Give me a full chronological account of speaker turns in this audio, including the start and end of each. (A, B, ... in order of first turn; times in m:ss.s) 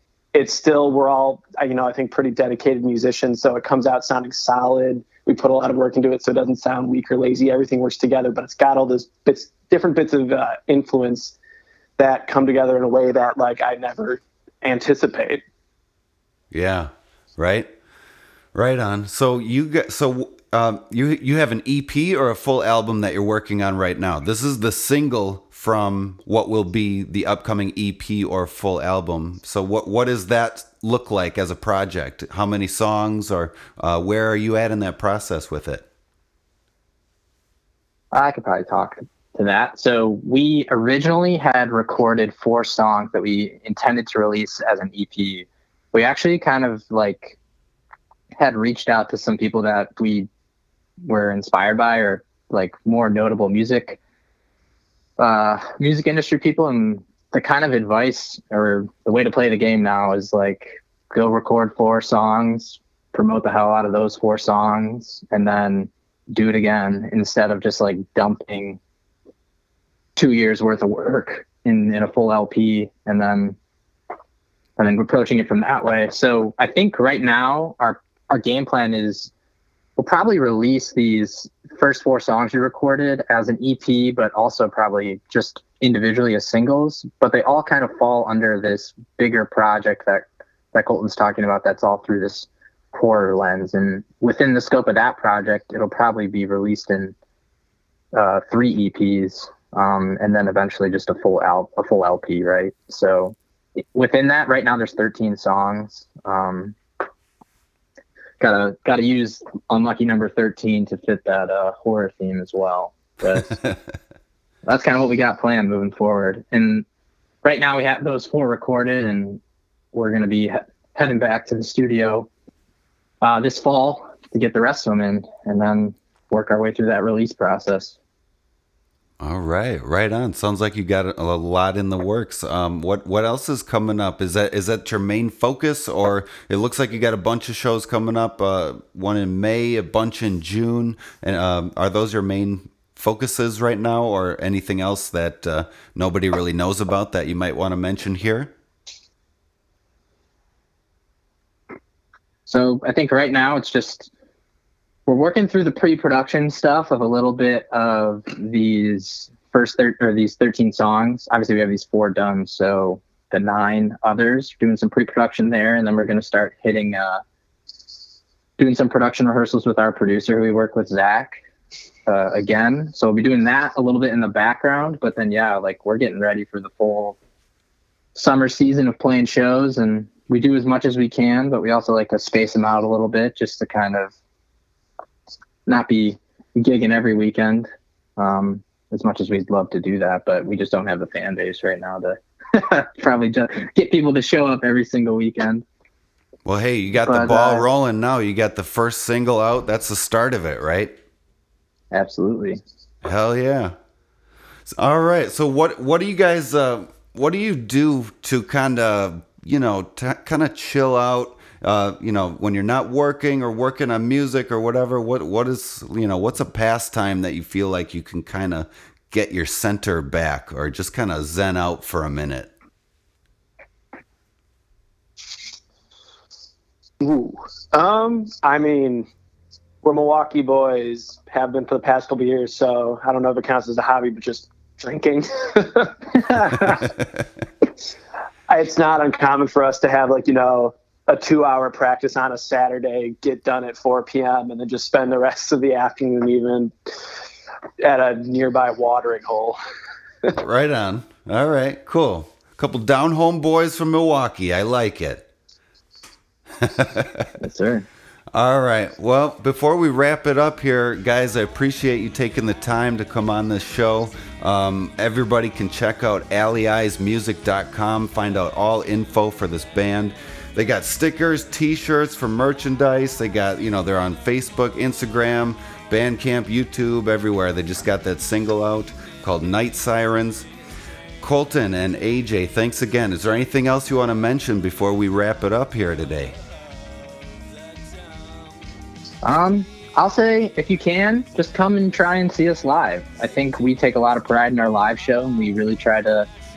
0:00.3-0:11.4 A
0:12.0-0:15.4 A
0:16.5-0:17.7 B
0:18.5-0:35.8 B
0:38.1-0:47.4 C
0:48.4-0:50.3 C
0:51.0-0:54.0 C
0:55.2-1:08.8 C
1:10.2-1:13.6 C
1:14.8-1:19.3 C
1:20.0-1:37.2 C
1:38.1-1:46.8 C
1:48.4-1:53.6 C
1:54.6-1:56.8 C
1:57.4-1:59.4 C
1:59.9-2:02.3 C
2:03.2-2:08.0 C
2:09.2-2:28.5 B
2:32.5-2:34.1 C
2:35.1-2:47.2 C
2:48.6-2:51.4 C
2:52.1-2:57.2 C
2:58.2-3:04.1 C
3:05.7-3:15.6 C
3:16.5-3:21.0 B
3:17.0-3:17.6 C
3:21.9-3:22.6 C
3:23.0-3:23.7 B
3:24.7-3:42.5 B
3:47.0-3:49.1 A
3:49.8-3:56.9 A
3:58.5-4:06.7 A
4:07.8-4:09.6 A
4:10.3-4:15.3 B
4:16.6-4:17.3 B
4:17.4-4:17.9 C
4:18.3-4:40.5 B
4:41.2-4:46.4 B
4:49.2-4:56.3 C